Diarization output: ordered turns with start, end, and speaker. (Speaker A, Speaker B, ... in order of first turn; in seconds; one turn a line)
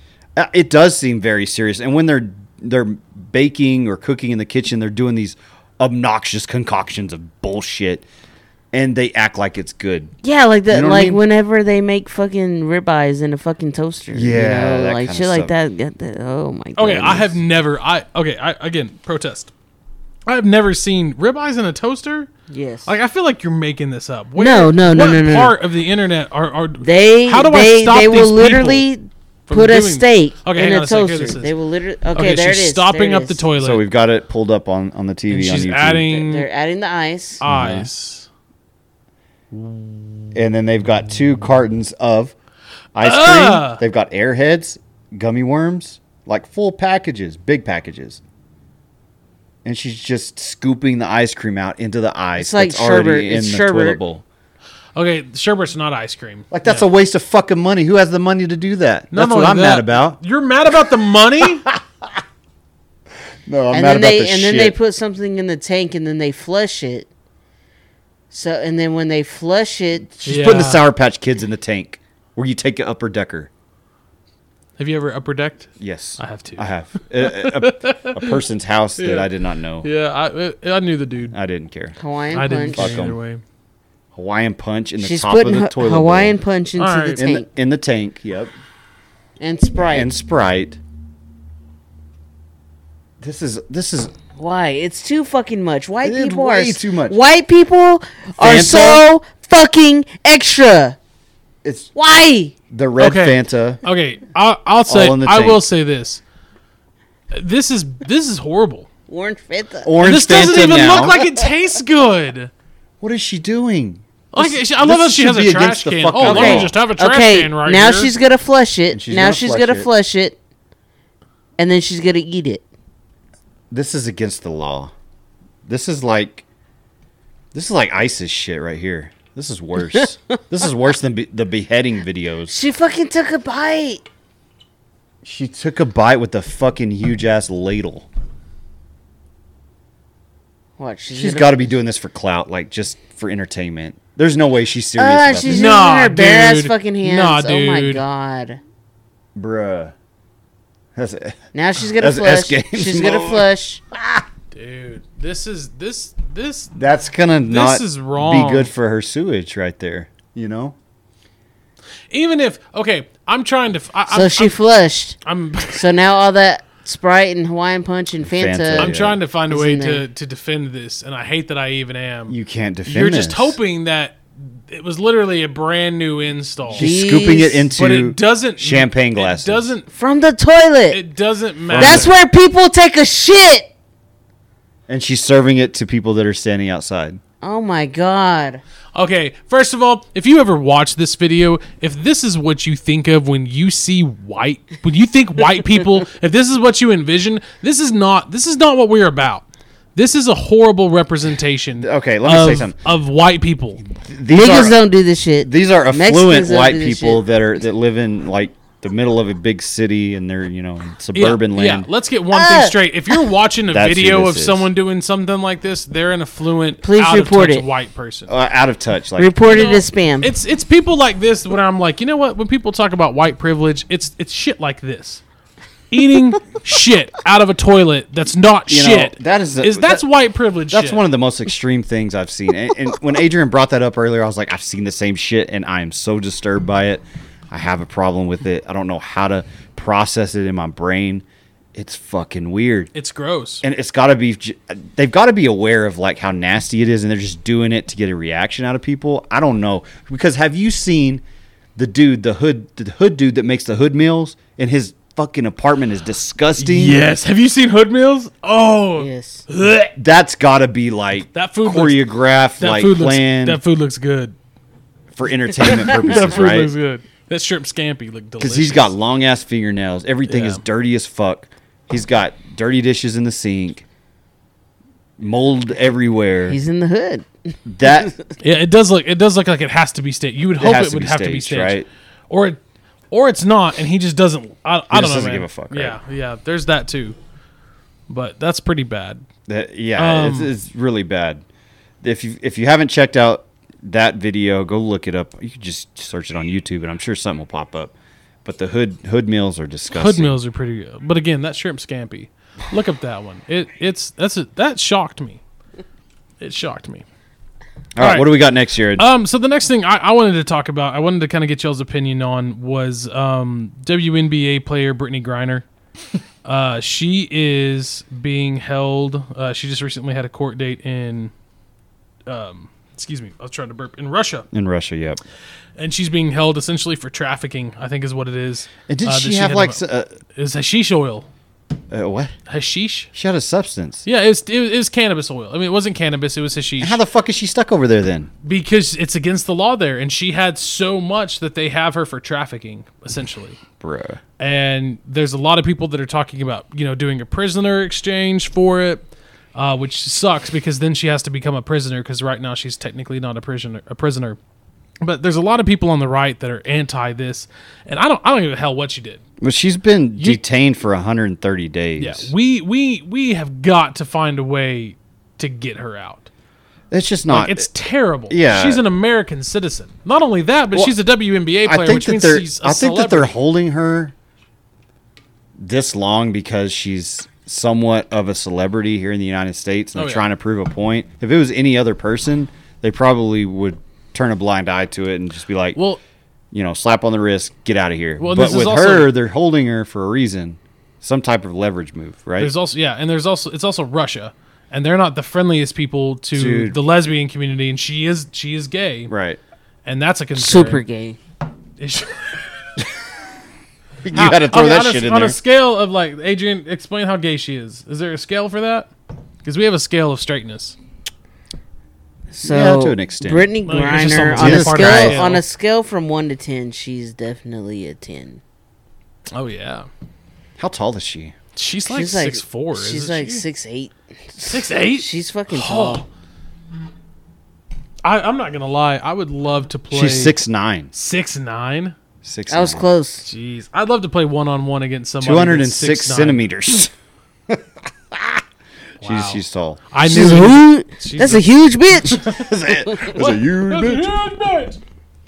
Speaker A: 0.4-8.0
Speaker A: 8.7-10.1
Speaker B: 10.2-17.4
Speaker A: 10.7-11.2
Speaker A: 14.1-15.5
Speaker C: 16.8-19.5
Speaker C: 20.3-22.3
Speaker B: 22.5-22.9
Speaker C: 22.9-28.8
Speaker B: 24.4-25.6
Speaker B: 26.8-33.4
Speaker C: 29.5-31.5
Speaker C: 32.1-33.8
Speaker A: 33.6-36.1
Speaker C: 35.3-36.5
Speaker B: 36.1-37.4
Speaker C: 37.4-38.3
Speaker A: 37.5-37.9
Speaker C: 39.5-39.8
Speaker A: 40.3-42.3
Speaker A: 43.0-48.2
Speaker C: 43.0-43.8
Speaker A: 49.6-54.2
Speaker B: 52.4-54.0
Speaker C: 55.0-56.9
Speaker A: 56.5-60.2
Speaker C: 59.1-61.7
Speaker A: 61.7-62.2
Speaker A: 63.5-64.8
Speaker B: 63.7-67.1
Speaker B: 68.3-70.1
Speaker A: 70.1-73.5
Speaker C: 70.2-70.8
Speaker C: 74.8-76.6
Speaker A: 75.8-79.9
Speaker C: 77.2-78.4
Speaker C: 79.0-79.3
Speaker C: 79.8-81.3
Speaker A: 81.3-82.0
Speaker B: 82.0-83.0
Speaker C: 82.3-83.4
Speaker A: 82.7-83.2
Speaker A: 84.1-86.3
Speaker B: 85.0-87.5
Speaker C: 86.8-87.2
Speaker A: 87.2-88.5
Speaker B: 89.4-90.1
Speaker A: 89.8-90.8
Speaker A: 93.2-94.1
Speaker B: 94.4-101.0
Speaker A: 96.0-97.2
Speaker A: 98.4-99.0
Speaker A: 101.6-101.9
Speaker B: 102.0-102.5
Speaker A: 102.7-103.8
Speaker C: 103.0-106.2
Speaker A: 104.9-105.6
Speaker C: 107.3-108.9
Speaker B: 109.1-111.5
Speaker A: 109.8-111.2
Speaker C: 110.0-112.5
Speaker A: 113.0-116.8
Speaker C: 114.3-118.1
Speaker B: 116.2-120.4
Speaker A: 118.9-119.9
Speaker B: 121.6-122.6
Speaker A: 123.7-124.9
Speaker A: 125.7-126.5
Speaker A: 127.5-132.5
Speaker B: 132.5-134.0
Speaker A: 135.2-138.1
Speaker B: 140.8-141.6
Speaker A: 141.1-145.7
Speaker B: 145.0-148.6
Speaker C: 145.5-148.0
Speaker A: 149.3-149.9
Speaker A: 151.0-151.4
Speaker B: 151.5-153.8
Speaker A: 152.0-154.2
Speaker C: 154.5-156.8
Speaker A: 156.8-160.8
Speaker C: 157.5-158.7
Speaker C: 162.1-164.5
Speaker B: 164.1-165.2
Speaker C: 165.2-165.9
Speaker B: 165.7-168.9
Speaker A: 168.2-169.2
Speaker C: 168.8-176.9
Speaker B: 169.5-170.0
Speaker A: 172.3-173.6
Speaker A: 176.7-179.7
Speaker B: 176.7-177.7
Speaker C: 177.8-179.9
Speaker B: 179.9-181.0
Speaker C: 180.9-182.1
Speaker A: 181.7-182.1
Speaker B: 181.8-183.7
Speaker A: 184.9-187.2
Speaker B: 187.4-188.6
Speaker C: 188.9-203.8
Speaker A: 201.8-202.8
Speaker A: 203.8-204.8
Speaker B: 204.3-207.2
Speaker A: 205.4-211.9
Speaker C: 211.1-218.3
Speaker B: 212.3-212.8
Speaker A: 213.7-214.7
Speaker B: 216.8-217.7
Speaker A: 218.3-219.3
Speaker B: 219.2-220.3
Speaker C: 219.5-225.2
Speaker C: 225.9-231.0
Speaker A: 228.7-230.0
Speaker A: 230.7-242.9
Speaker C: 242.9-243.6
Speaker A: 243.6-251.2
Speaker A: 251.8-257.0
Speaker C: 256.6-259.9
Speaker B: 259.0-259.4
Speaker A: 260.0-263.6
Speaker C: 261.3-264.3
Speaker A: 265.1-266.7
Speaker C: 265.6-268.9
Speaker A: 268.4-273.8
Speaker C: 270.3-270.6
Speaker A: 275.2-276.6
Speaker B: 276.5-277.3
Speaker A: 277.7-278.1
Speaker C: 278.4-282.6
Speaker A: 280.6-281.9
Speaker C: 283.1-287.2
Speaker A: 284.9-286.0
Speaker C: 288.1-289.2
Speaker A: 289.5-291.4
Speaker C: 290.0-290.5
Speaker A: 292.0-300.3
Speaker C: 299.9-305.4
Speaker C: 306.4-307.0
Speaker A: 308.0-309.1
Speaker C: 308.0-308.3
Speaker C: 309.0-315.6
Speaker C: 316.4-321.3
Speaker C: 322.3-324.5
Speaker A: 324.5-325.2
Speaker C: 325.8-329.8
Speaker A: 328.9-330.1
Speaker C: 330.3-331.3
Speaker A: 331.9-332.3
Speaker C: 332.5-333.1
Speaker A: 333.1-334.0
Speaker C: 334.0-337.0
Speaker A: 336.8-338.3
Speaker C: 338.4-343.6
Speaker A: 343.8-344.2
Speaker C: 344.4-354.4
Speaker C: 355.0-359.2
Speaker A: 359.4-362.3
Speaker C: 362.0-366.3
Speaker A: 366.9-367.7
Speaker C: 367.3-373.3
Speaker A: 368.3-368.8
Speaker A: 371.6-374.1
Speaker A: 375.6-385.8
Speaker C: 380.0-380.2
Speaker C: 385.8-386.0
Speaker A: 386.5-392.5
Speaker C: 388.2-389.1
Speaker C: 392.4-399.1
Speaker A: 396.3-396.8
Speaker A: 399.1-399.4
Speaker C: 399.8-400.8
Speaker B: 400.4-401.2
Speaker C: 401.8-402.7
Speaker A: 404.0-405.4
Speaker C: 404.1-408.9
Speaker C: 409.4-410.8
Speaker B: 412.3-418.4
Speaker A: 412.4-413.5
Speaker C: 413.7-415.4
Speaker A: 414.3-415.2
Speaker C: 419.3-419.9
Speaker A: 420.6-421.3
Speaker C: 421.6-423.4
Speaker B: 421.9-426.0
Speaker C: 424.5-426.1
Speaker C: 428.0-430.4
Speaker A: 429.9-430.9
Speaker C: 430.9-431.9
Speaker A: 432.2-432.9
Speaker B: 432.5-433.3
Speaker C: 433.2-436.4
Speaker A: 435.2-436.9
Speaker A: 437.5-438.4
Speaker C: 439.0-441.4
Speaker A: 439.0-439.9
Speaker B: 440.0-442.4
Speaker A: 442.2-444.1
Speaker C: 443.0-444.8